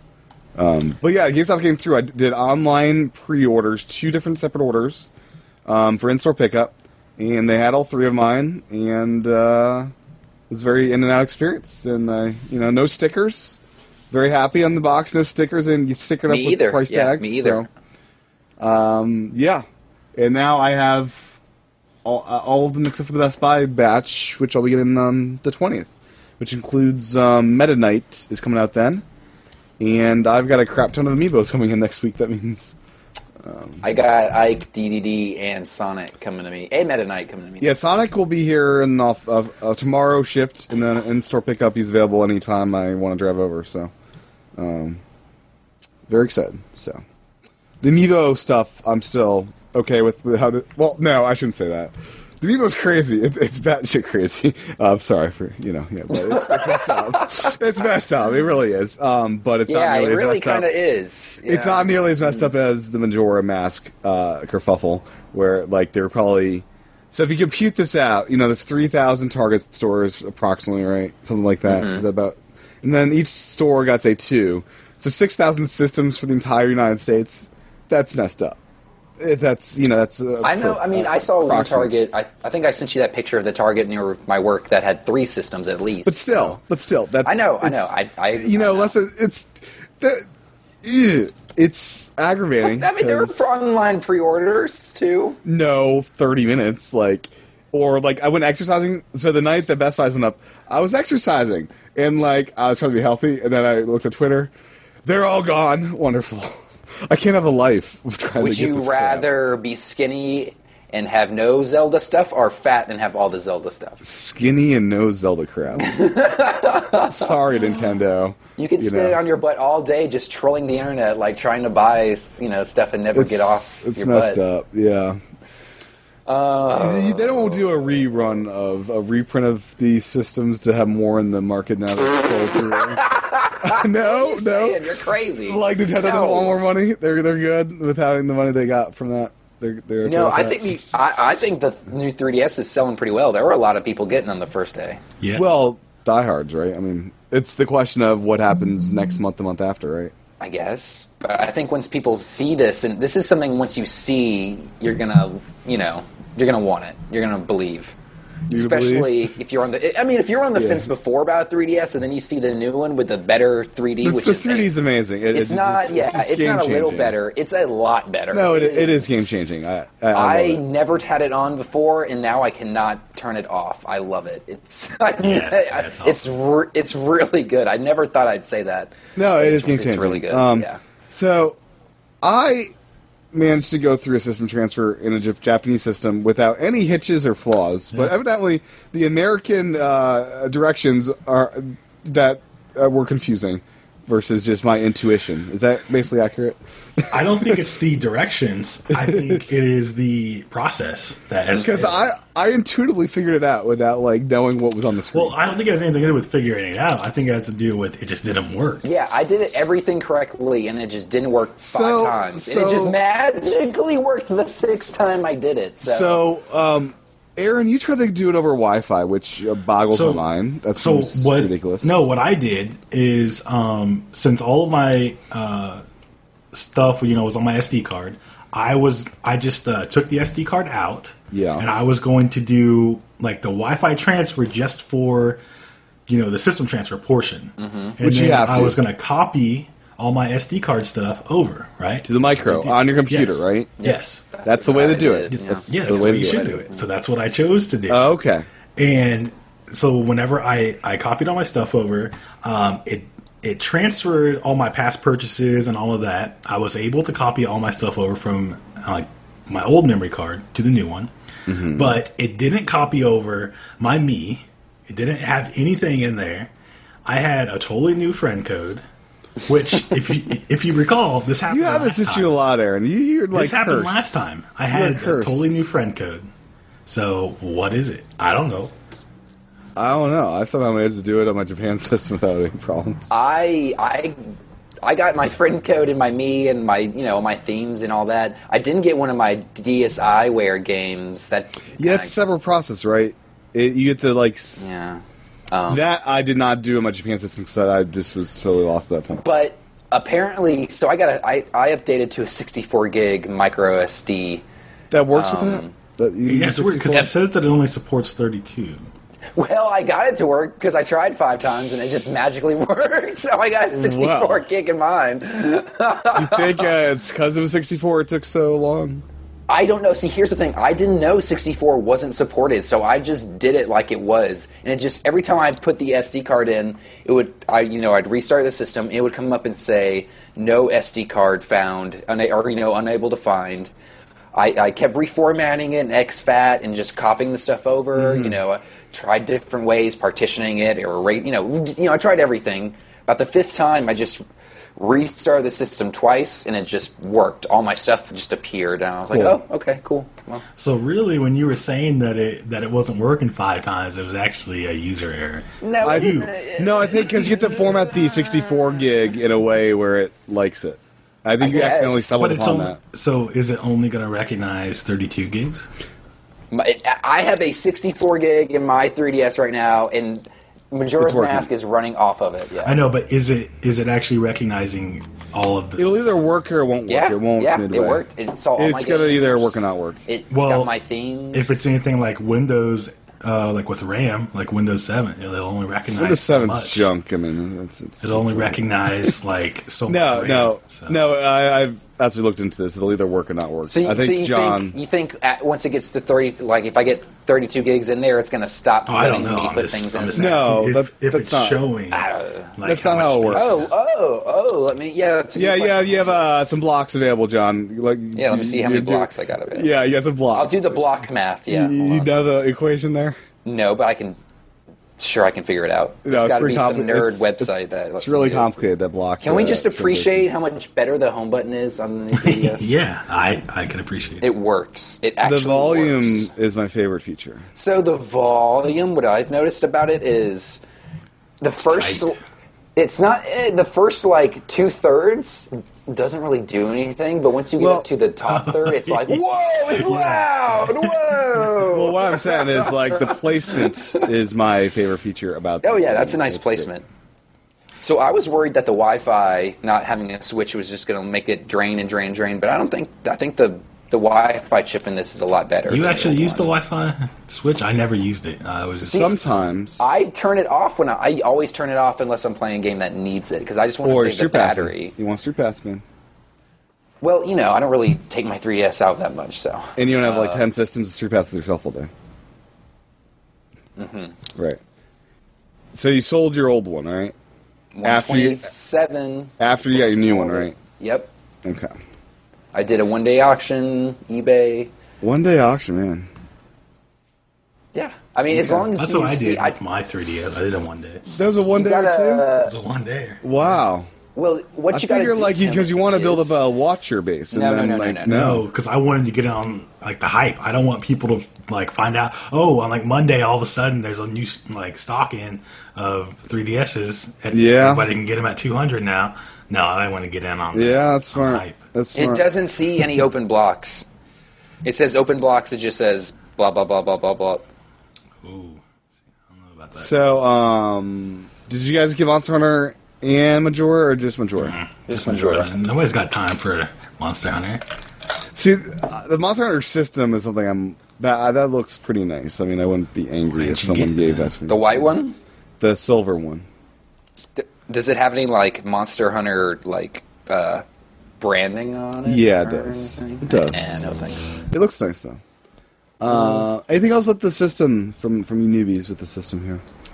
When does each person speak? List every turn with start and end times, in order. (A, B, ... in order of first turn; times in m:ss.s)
0:00.6-0:05.1 A
0:05.7-0:09.9 A
0:10.5-0:13.6 A
0:14.1-0:17.7 A
0:16.3-0:17.7 B
0:18.6-0:21.4 A
0:22.0-0:29.0 A
0:29.8-0:32.8 A
0:33.4-0:33.8 A
0:33.8-0:37.7 B
0:37.6-0:43.9 A
0:44.6-0:45.0 A
0:46.1-0:47.0 A
0:47.8-1:00.7 A
0:56.1-0:57.6 B
0:59.7-1:02.5 B
1:01.4-1:18.6 A
1:11.7-1:12.0 B
1:19.2-1:22.1 A
1:20.4-1:26.6 B
1:26.1-1:30.3 A
1:27.2-1:29.0 B
1:30.8-1:33.6 A
1:32.6-1:35.4 B
1:35.4-1:44.5 A
1:45.0-1:49.3 A
1:48.4-1:54.0 B
1:54.0-1:56.0 A
1:55.8-1:57.4 B
1:57.1-1:59.2 A
1:58.6-2:04.4 B
2:03.1-2:05.2 A
2:06.3-2:07.9 B
2:06.8-2:13.0 A
2:12.7-2:16.6 B
2:13.6-2:14.9 A
2:15.4-2:20.7 A
2:20.0-2:25.0 B
2:25.2-2:25.4 C
2:25.3-2:30.1 A
2:30.4-2:38.0 B
2:38.5-2:39.3 A
2:38.5-2:44.7 B
2:40.6-2:40.9 A
2:44.0-2:47.2 A
2:45.3-2:49.5 B
2:48.3-2:50.6 A
2:50.1-3:00.8 B
2:55.2-2:56.3 C
2:59.2-3:01.6 A
3:02.2-3:02.7 A
3:03.3-3:17.6 A
3:17.1-3:22.1 C
3:18.9-3:19.4 A
3:21.5-3:25.3 A
3:25.1-3:28.9 C
3:28.8-3:36.2 B
3:31.6-3:33.0 A
3:35.8-3:42.0 A
3:39.9-3:40.2 C
3:40.8-3:45.8 C
3:46.5-3:55.4 C
3:51.3-3:51.7 A
3:56.1-4:04.2 C
3:57.6-3:58.0 B
3:58.0-3:58.8 A
4:02.0-4:03.8 A
4:03.8-4:06.8 B
4:04.4-4:06.6 A
4:05.3-4:08.1 C
4:07.9-4:08.4 A
4:08.8-4:21.1 C
4:21.5-4:22.0 A
4:21.6-4:26.5 C
4:27.1-4:28.8 C
4:29.4-4:32.4 C
4:31.5-4:35.6 A
4:33.3-4:36.3 C
4:36.8-4:38.7 C
4:39.8-4:43.1 A
4:43.1-4:44.3 B
4:44.8-4:52.2 B
4:51.8-4:54.7 A
4:54.6-4:55.8 B
4:55.7-4:59.2 A
4:59.2-5:04.4 B
5:04.9-5:07.1 A
5:05.1-5:05.7 B
5:06.3-5:08.9 C
5:09.3-5:16.7 B
5:13.7-5:14.4 A
5:16.1-5:19.0 A
5:19.5-5:33.7 B
5:34.3-5:44.2 B
5:37.9-5:38.4 A
5:44.8-5:50.4 B
5:49.1-5:49.4 A
5:50.6-5:56.3 C
5:55.6-5:58.5 B
5:55.8-6:02.8 A
6:01.4-6:02.2 B
6:02.2-6:05.7 C
6:06.5-6:12.8 B
6:11.0-6:11.5 A
6:12.6-6:16.0 C
6:15.8-6:18.0 A
6:16.9-6:21.7 B
6:18.6-6:20.0 A
6:20.3-6:20.7 C
6:21.3-6:26.9 C
6:25.9-6:29.2 A
6:28.0-6:31.0 C
6:29.9-6:34.8 A
6:33.6-6:40.5 B
6:38.9-6:43.7 C
6:40.1-6:41.6 A
6:41.9-6:42.5 B
6:42.6-6:43.7 A
6:43.3-6:46.3 B
6:45.3-6:50.8 A
6:48.2-6:49.7 B
6:50.3-6:52.2 B
6:51.5-6:53.2 A
6:53.4-6:54.2 B
6:55.0-6:58.5 B
6:56.0-7:00.3 A
6:59.2-7:02.7 B
7:02.2-7:04.2 C
7:04.2-7:06.3 B
7:05.2-7:07.4 A
7:07.6-7:10.6 B
7:11.4-7:12.2 B
7:11.7-7:12.1 C
7:12.8-7:24.0 B
7:17.6-7:17.9 A
7:18.3-7:21.0 C
7:21.6-7:26.7 A
7:25.6-7:26.8 B
7:27.8-7:36.5 B
7:35.7-7:39.2 C
7:38.8-7:39.2 B
7:38.9-7:39.9 A
7:39.8-7:44.9 B
7:43.8-7:45.8 A
7:47.0-7:50.5 B
7:49.8-7:51.9 A
7:53.8-7:54.2 B
7:54.3-7:54.6 A
7:55.7-7:57.2 A
7:57.7-8:01.1 B
7:57.8-7:58.5 A
7:59.4-8:00.6 A
8:01.4-8:01.7 A
8:02.5-8:04.7 B
8:05.0-8:06.1 A
8:07.7-8:09.6 B
8:08.3-8:08.7 A
8:08.8-8:11.0 C
8:11.1-8:12.3 A
8:11.5-8:12.5 B
8:12.4-8:13.6 C
8:13.2-8:13.9 A
8:14.2-8:16.5 B
8:14.7-8:18.4 A
8:17.3-8:18.2 B
8:18.1-8:31.6 C
8:27.3-8:27.8 A
8:30.5-8:32.3 A
8:31.9-8:33.9 B
8:34.6-8:37.4 B
8:38.2-8:38.6 C
8:39.3-8:40.0 C
8:39.8-8:44.6 A
8:44.4-8:47.6 C
8:44.9-8:45.5 B
8:48.3-8:54.9 A
8:53.3-8:54.3 C
8:54.5-8:55.2 B
8:55.6-8:56.4 A
8:57.4-9:00.6 B
9:01.2-9:04.4 B
9:02.0-9:03.9 A
9:04.5-9:05.2 A
9:06.0-9:09.6 A